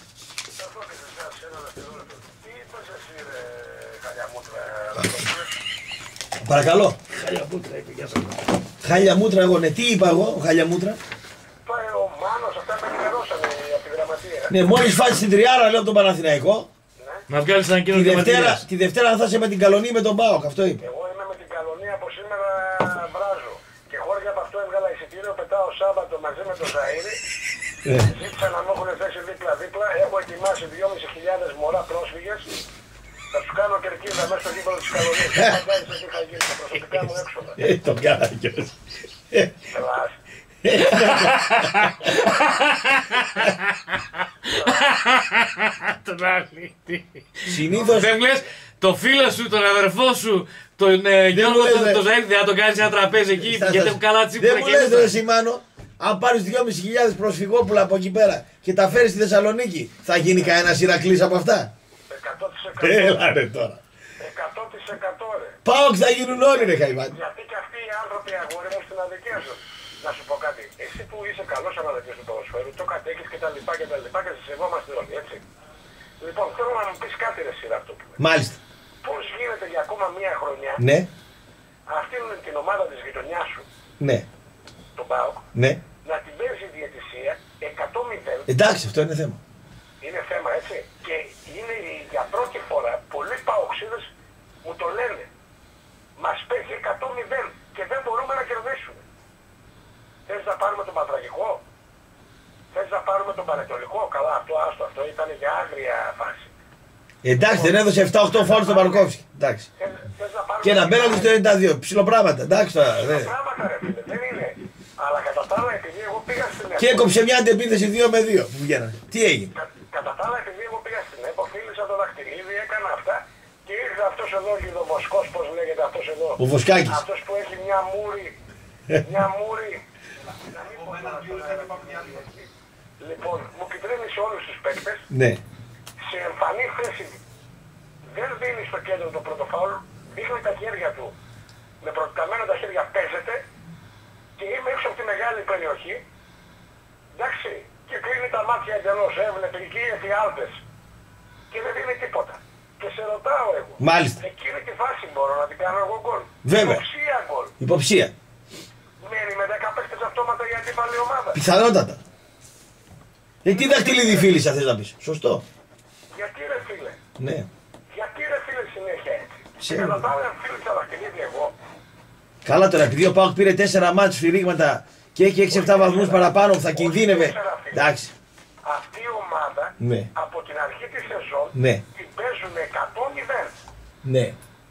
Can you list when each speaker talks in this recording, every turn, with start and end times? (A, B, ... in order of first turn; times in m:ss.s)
0:00.6-0:05.5 A
0:06.4-0:07.0 B
0:07.2-0:08.4 C
0:08.8-0:11.0 B
0:11.6-0:14.6 A
0:14.5-0:16.7 B
0:17.0-0:17.3 A
0:17.3-0:18.6 C
0:17.9-0:20.8 B
0:20.8-0:27.2 A
0:27.8-0:28.1 B
0:28.0-0:32.5 A
0:33.3-0:37.6 A
0:37.6-0:38.7 B
0:39.7-0:40.1 A
0:40.6-0:41.8 B
0:40.7-0:55.1 C
0:44.5-0:44.9 A
0:47.5-0:48.1 B
0:51.3-0:52.0 B
0:53.4-1:01.7 B
1:00.3-1:00.6 A
1:02.1-1:03.3 A
1:02.8-1:03.8 B
1:04.2-1:05.6 A
1:05.6-1:07.1 B
1:06.3-1:15.4 A
1:16.2-1:18.2 A
1:18.2-1:18.6 B
1:19.0-1:20.8 A
1:20.8-1:21.1 B
1:21.9-1:23.7 A
1:24.0-1:24.2 B
1:25.0-1:25.5 A
1:25.6-1:25.8 B
1:26.0-1:28.5 A
1:28.5-1:29.4 B
1:30.0-1:34.1 A
1:34.6-1:35.3 A
1:36.2-1:39.0 A
1:40.3-1:41.6 A
1:42.7-1:46.5 A
1:47.2-1:49.7 B
1:47.3-1:49.1 A
1:49.8-1:51.4 A
1:50.6-1:53.3 B
1:52.9-1:57.2 A
1:56.8-1:59.5 B
1:59.5-2:08.4 A
2:06.4-2:07.0 B
2:09.0-2:09.8 A
2:10.4-2:15.1 A
2:15.1-2:15.4 B
2:16.1-2:17.2 A
2:18.1-2:21.1 A
2:21.8-2:23.4 A
2:24.4-2:26.0 A
2:27.2-2:30.6 A
2:31.5-2:37.5 A
2:33.8-2:34.2 B
2:36.4-2:36.8 B
2:37.6-2:38.1 B
2:39.0-2:41.4 A
2:41.3-2:42.0 B
2:43.4-2:45.4 B
2:43.5-2:44.4 A
2:46.1-2:47.0 A
2:47.2-2:47.5 B
2:47.9-2:51.5 A
2:49.6-2:50.0 B
2:52.4-2:58.1 B
2:55.5-2:57.9 A
2:58.6-3:03.5 A
2:59.8-3:00.1 B
3:01.6-3:01.8 B
3:04.0-3:04.4 B